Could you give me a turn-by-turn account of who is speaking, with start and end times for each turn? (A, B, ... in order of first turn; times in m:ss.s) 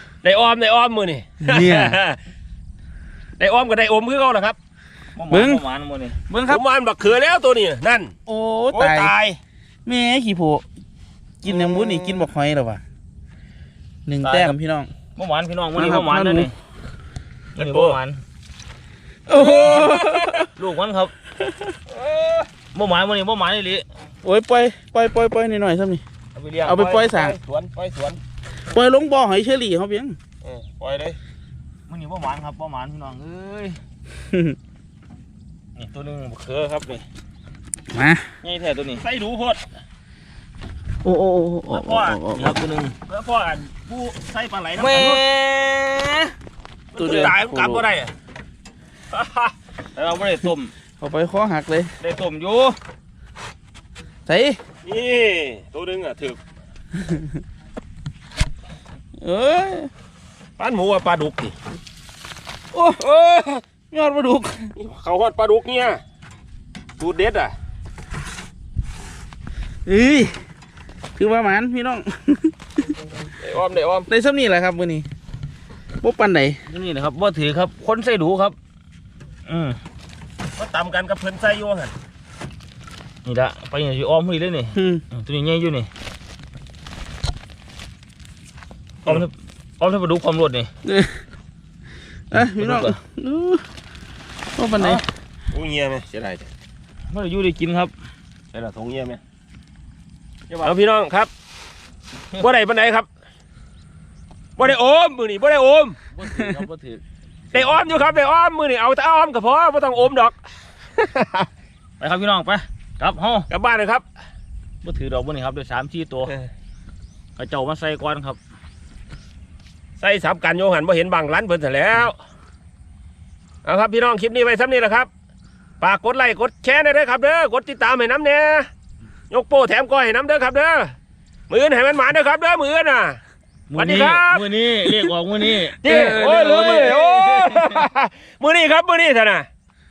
0:00.2-0:02.2 A
0:01.4-0:02.0 B
0:03.4-0:04.6 A
0:05.2-0:06.2 C
0:05.3-0:05.6 B
0:06.3-0:06.6 B
0:06.5-0:08.1 A
0:08.3-0:09.1 B
0:08.7-0:09.4 A
0:09.8-0:10.7 B
0:11.4-0:12.8 B
0:11.5-0:12.3 A
0:14.1-0:14.9 B
0:15.2-0:16.5 C
0:15.8-0:16.5 B
0:17.6-0:18.0 A
0:17.6-0:18.2 C
0:19.3-0:20.5 B
0:19.3-0:20.4 A
0:20.5-0:21.1 C
0:21.9-0:22.5 A
0:22.7-0:23.8 C
0:24.2-0:26.0 B
0:26.4-0:26.8 C
0:26.6-0:27.4 B
0:26.6-0:28.2 A
0:28.7-0:30.2 B
0:30.4-0:31.2 A
0:31.9-0:33.8 C
0:35.8-0:37.0 C
0:37.9-0:38.2 B
0:38.4-0:39.0 C
0:38.9-0:39.6 A
0:41.0-0:42.5 B
0:41.7-0:42.2 A
0:42.3-0:43.0 C
0:43.1-0:45.2 A
0:44.8-0:46.3 C
0:46.9-0:48.1 A
0:47.0-0:47.8 B
0:49.1-0:49.5 A
0:50.0-0:50.7 C
0:51.0-0:51.9 B
0:52.0-0:52.8 C
0:54.3-0:54.6 B
0:54.8-0:56.4 A
0:57.0-0:57.3 B
0:59.2-0:59.9 B
1:00.6-1:01.6 A
1:02.7-1:03.0 B
1:03.0-1:03.6 A
1:03.9-1:04.7 B
1:04.8-1:06.0 A
1:07.0-1:07.5 A
1:09.9-1:10.4 B
1:11.2-1:12.5 B
1:13.4-1:14.1 A
1:14.1-1:15.1 B
1:16.0-1:16.6 B
1:16.7-1:18.6 C
1:19.5-1:19.8 C
1:20.6-1:21.9 A
1:23.2-1:25.9 C
1:24.7-1:25.0 B
1:29.1-1:30.7 C
1:30.8-1:31.2 B
1:32.3-1:33.6 B
1:32.3-1:33.0 C
1:34.6-1:35.0 B
1:34.8-1:35.0 C
1:35.5-1:36.5 A
1:37.1-1:37.9 C
1:38.5-1:39.2 A
1:40.5-1:41.3 A
1:42.4-1:43.1 A
1:44.6-1:46.0 A
1:46.1-1:47.0 C
1:47.5-1:50.4 A
1:51.0-1:51.5 A
1:52.0-1:53.5 C
1:53.5-1:54.0 A
1:54.8-1:56.3 C
1:57.4-1:58.4 C
2:00.0-2:02.2 A
2:03.6-2:05.1 A
2:05.8-2:08.7 A
2:09.3-2:11.0 A
2:11.5-2:13.2 A
2:13.7-2:17.6 C
2:13.7-2:14.5 A
2:15.8-2:17.6 B
2:15.8-2:19.5 A